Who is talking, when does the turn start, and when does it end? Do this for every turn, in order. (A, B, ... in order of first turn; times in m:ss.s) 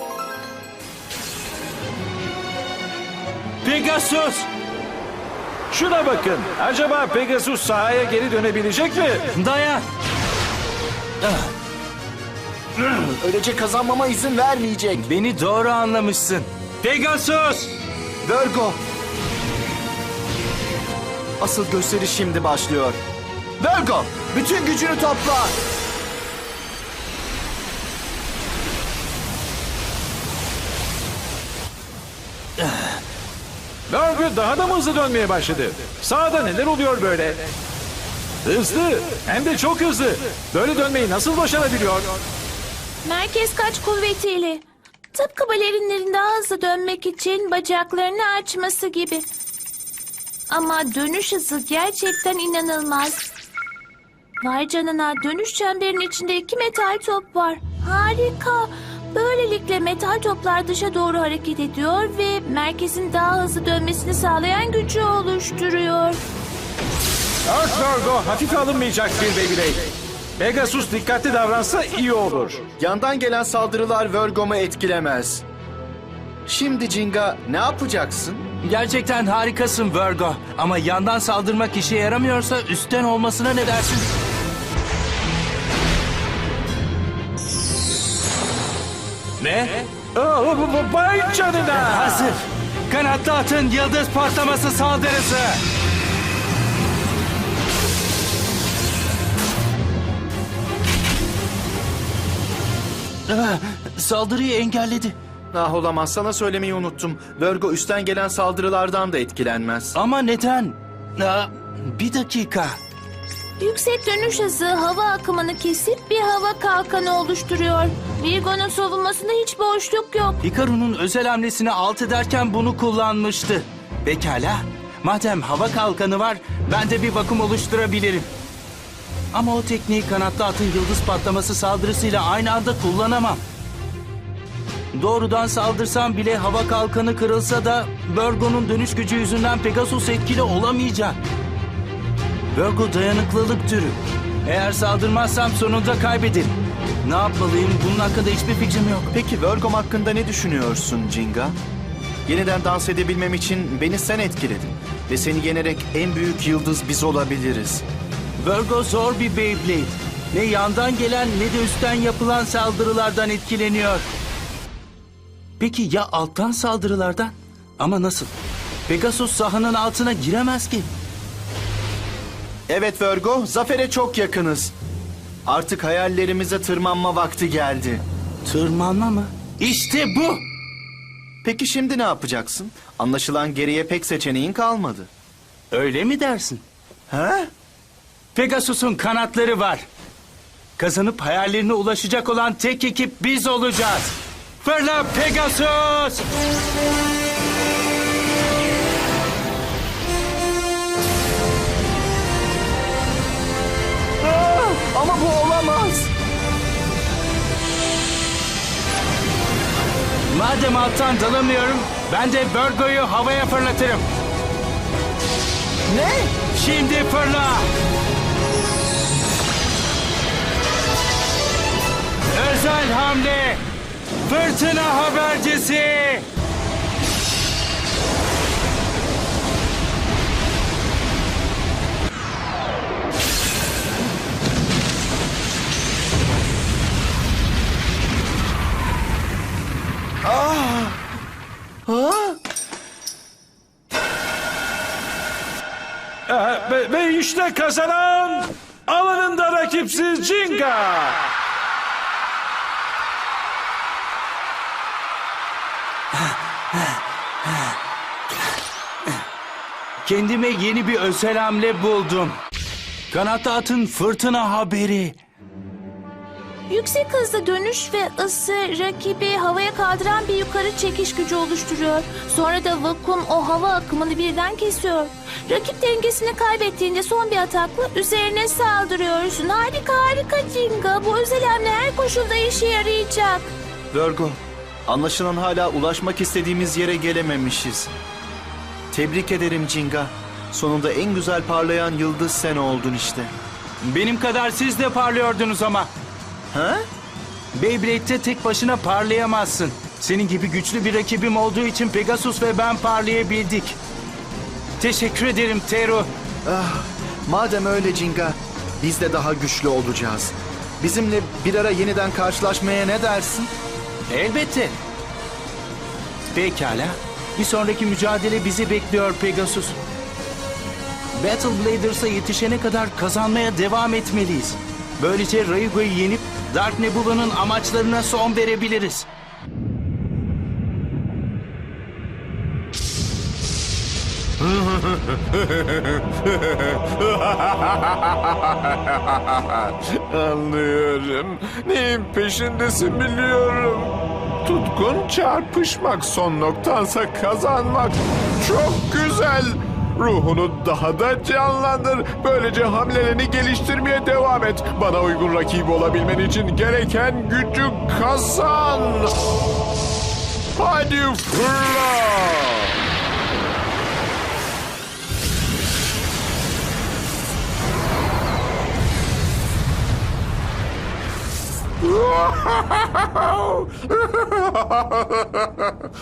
0:03.6-0:04.5 A
0:05.7-0:09.3 B
0:09.4-0:09.9 A
0:11.2-0:11.5 A
0:12.8-0:15.1 C
0:15.0-0:17.7 A
0:18.2-0:18.8 C
0:21.4-0:23.0 C
0:23.6-0:25.6 C
0:33.9-0:37.5 B
0:38.4-0:42.2 B
0:43.0-0:49.3 D
0:50.5-0:53.2 D
0:54.4-1:06.2 D
1:07.5-1:12.6 B
1:12.8-1:15.4 C
1:16.5-1:18.5 C
1:18.6-1:24.1 A
1:29.4-1:32.4 B
1:31.7-1:35.6 A
1:43.3-1:45.2 A
1:45.5-1:50.0 C
1:50.0-1:52.8 A
1:53.6-2:00.4 D
2:00.4-2:08.3 A
2:09.3-2:13.4 A
2:14.9-2:21.2 A
2:22.5-2:29.1 A
2:29.1-2:31.6 C
2:32.3-2:37.8 C
2:38.4-2:44.1 A
2:45.6-2:48.3 A
2:48.9-2:50.9 A
2:52.7-2:54.7 C
2:55.5-2:58.0 C
2:58.4-3:00.4 A
3:01.4-3:05.1 C
3:05.7-3:06.6 A
3:07.1-3:07.5 C
3:08.3-3:09.9 A
3:10.8-3:16.2 A
3:24.2-3:26.1 C
3:30.3-3:34.1 A
3:35.9-3:36.4 C
3:36.5-3:37.7 A
3:42.3-3:43.6 A
3:44.2-3:46.3 A
4:00.2-4:01.0 C
4:01.9-4:02.4 C
4:06.3-4:11.3 B
4:16.1-4:17.7 A
4:20.0-4:22.4 A
4:23.1-4:25.2 A
4:26.7-4:43.5 D
4:43.9-4:47.9 C
4:48.9-4:53.3 C
4:53.8-4:55.9 A
4:56.5-4:56.8 C
4:57.5-5:03.8 A
5:04.8-5:06.1 A
5:06.4-5:13.5 C
5:14.1-5:14.8 A
5:16.2-5:19.8 A
5:21.2-5:29.1 A
5:34.4-5:59.2 E
6:00.6-6:02.8 E
6:11.8-6:15.7 E